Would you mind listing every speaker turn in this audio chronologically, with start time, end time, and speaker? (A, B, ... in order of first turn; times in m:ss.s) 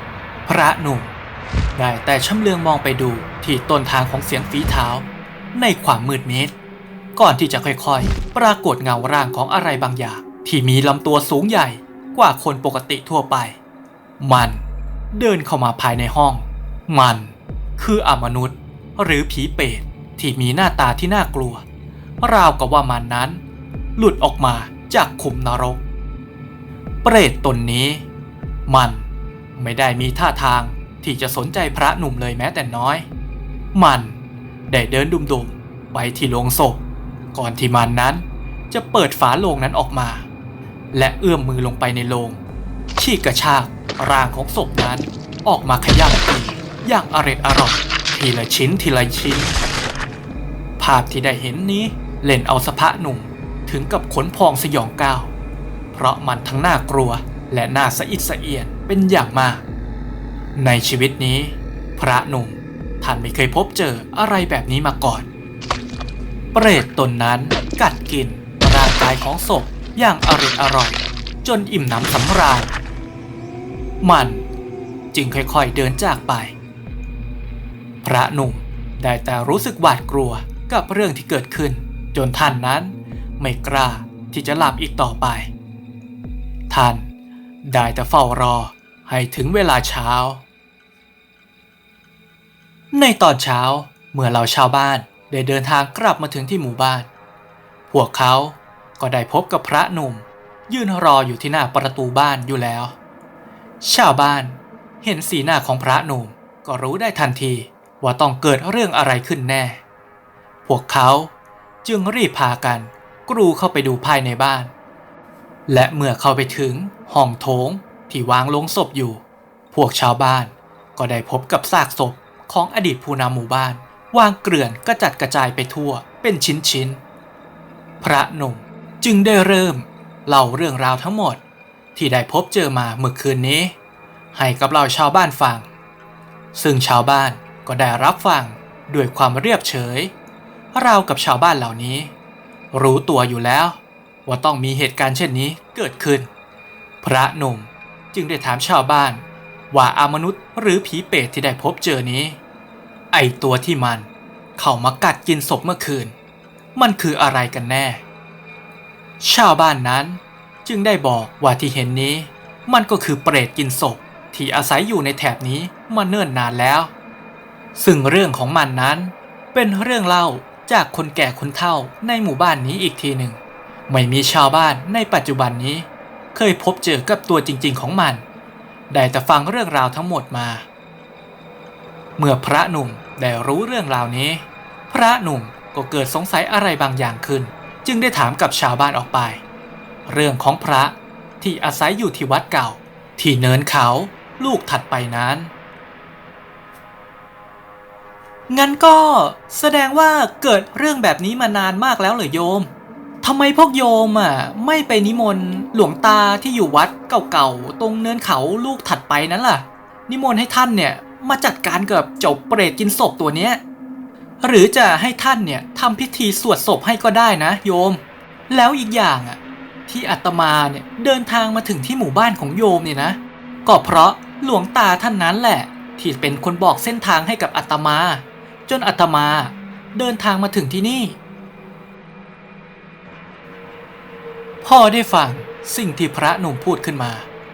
0:00.5-0:01.1 A
0:01.7-0:06.5 A
0:07.2-0:13.6 A
0:14.2-0:21.6 A
0:22.2-0:23.4 A
0:24.0-0:25.8 A
0:27.0-0:28.0 A
0:28.7-0:33.1 A
0:33.7-0:36.8 A
0:37.3-0:40.3 A
0:40.9-0:42.4 A
0:43.0-0:49.6 A
0:50.8-0:55.3 A
0:55.9-0:59.6 A
1:00.6-1:05.3 A
1:06.5-1:12.7 A
1:14.0-1:14.4 A
1:15.1-1:16.6 A
1:18.0-1:25.5 A
1:26.7-1:27.1 A
1:27.6-1:30.4 A
1:32.9-1:37.1 A
1:37.9-1:43.0 A
1:43.8-1:49.8 A
1:50.6-1:51.3 A
1:51.8-1:54.7 A
1:55.7-2:07.0 A
2:08.0-2:11.4 A
2:12.0-2:13.8 A
2:14.3-2:15.7 A
2:16.5-2:20.1 A
2:20.7-2:22.1 A
2:22.7-2:26.3 A
2:27.0-2:32.4 A
2:33.1-2:36.2 A
2:36.8-2:38.0 A
2:39.2-2:46.9 A
2:47.8-2:58.2 A
2:58.9-3:00.6 A
3:02.2-3:09.4 A
3:10.1-3:15.5 A
3:18.5-3:22.7 A
3:23.2-3:33.6 A
3:34.4-3:51.2 A
3:54.6-3:57.3 A